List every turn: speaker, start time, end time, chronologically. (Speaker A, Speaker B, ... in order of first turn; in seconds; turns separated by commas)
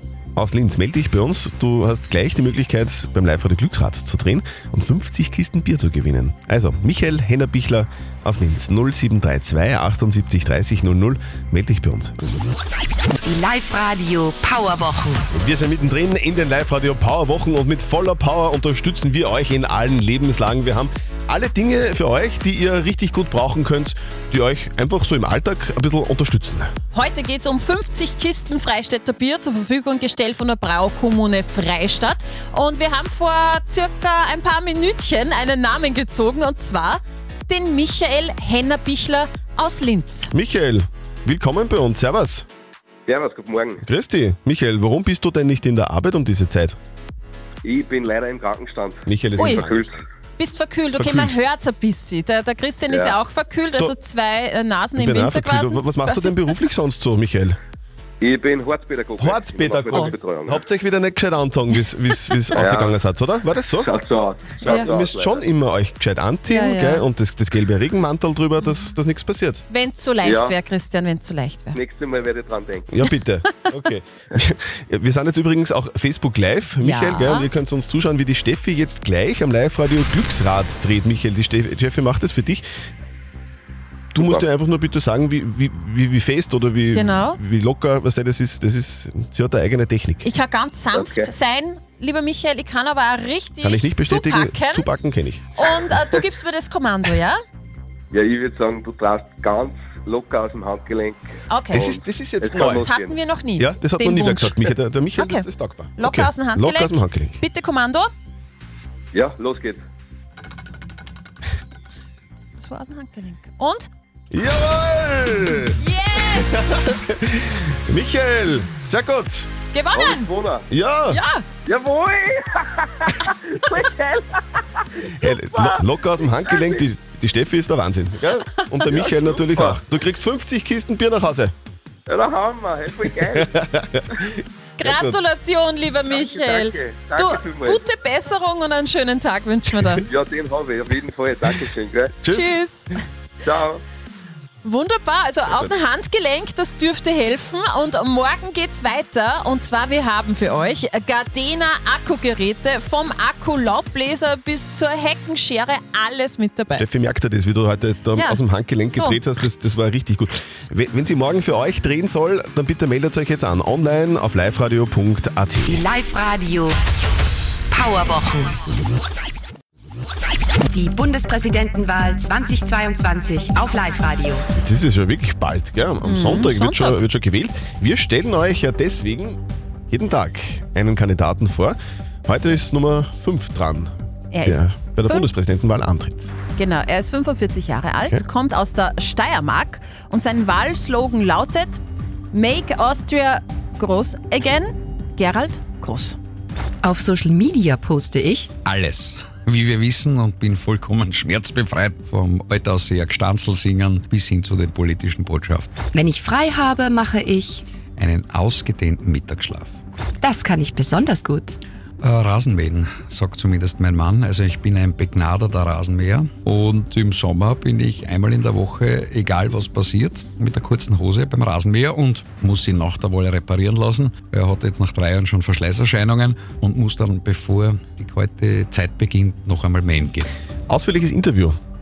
Speaker A: 0.4-12.2, Speaker B: 13.2-15.2, Speaker A: 15.3-26.7, Speaker C: 26.9-40.3, Speaker A: 40.3-42.5, Speaker D: 43.1-43.8, Speaker A: 43.8-46.8, Speaker D: 47.6-50.0, Speaker A: 49.1-49.8, Speaker C: 49.4-49.7, Speaker C: 50.4-56.5, Speaker A: 51.0-51.4, Speaker D: 52.9-53.2, Speaker A: 55.0-57.6, Speaker D: 58.2-60.6, Speaker A: 59.2-63.9, Speaker D: 62.6-62.9, Speaker D: 63.8-65.4, Speaker A: 64.6-69.6, Speaker C: 66.5-67.1, Speaker C: 69.7-71.8, Speaker D: 70.2-70.5, Speaker D: 71.8-72.9, Speaker A: 72.9-82.6, Speaker C: 76.8-77.5, Speaker A: 84.1-90.3, Speaker C: 86.9-87.4, Speaker C: 90.2-94.9, Speaker D: 90.9-91.3, Speaker A: 93.6-95.4, Speaker C: 95.6-97.4, Speaker D: 98.1-103.2, Speaker C: 101.5-101.9, Speaker A: 101.7-102.9, Speaker C: 102.5-108.1, Speaker A: 103.6-107.4, Speaker D: 109.1-109.8, Speaker C: 112.6-113.9, Speaker A: 114.3-115.8, Speaker C: 115.8-116.7, Speaker A: 116.3-119.5, Speaker C: 119.7-120.3, Speaker D: 119.9-120.7, Speaker A: 120.7-121.2, Speaker C: 121.1-121.5, Speaker D: 121.7-123.1, Speaker D: 123.6-124.2, Speaker A: 125.2-131.5, Speaker D: 125.5-125.8, Speaker D: 126.4-126.8, Speaker D: 128.9-129.8, Speaker D: 132.1-133.5, Speaker A: 133.1-135.2, Speaker C: 134.8-140.1, Speaker D: 136.1-137.8, Speaker D: 140.1-142.1, Speaker A: 142.2-142.6, Speaker C: 142.3-143.0, Speaker D: 143.4-143.8, Speaker C: 144.6-156.8, Speaker A: 156.8-165.8, Speaker C: 158.2-159.8, Speaker B: 165.7-166.8, Speaker B: 167.7-168.6, Speaker B: 170.7-174.5, Speaker A: 174.6-179.4, Speaker C: 176.0-177.0, Speaker A: 179.9-183.9, Speaker C: 184.3-185.3, Speaker A: 184.4-186.3, Speaker C: 186.6-191.8, Speaker C: 192.3-196.2, Speaker B: 196.8-198.5, Speaker E: 198.7-205.7, Speaker B: 205.9-207.6, Speaker E: 208.0-209.8, Speaker B: 210.2-211.6, Speaker E: 212.0-230.3, Speaker A: 230.7-231.6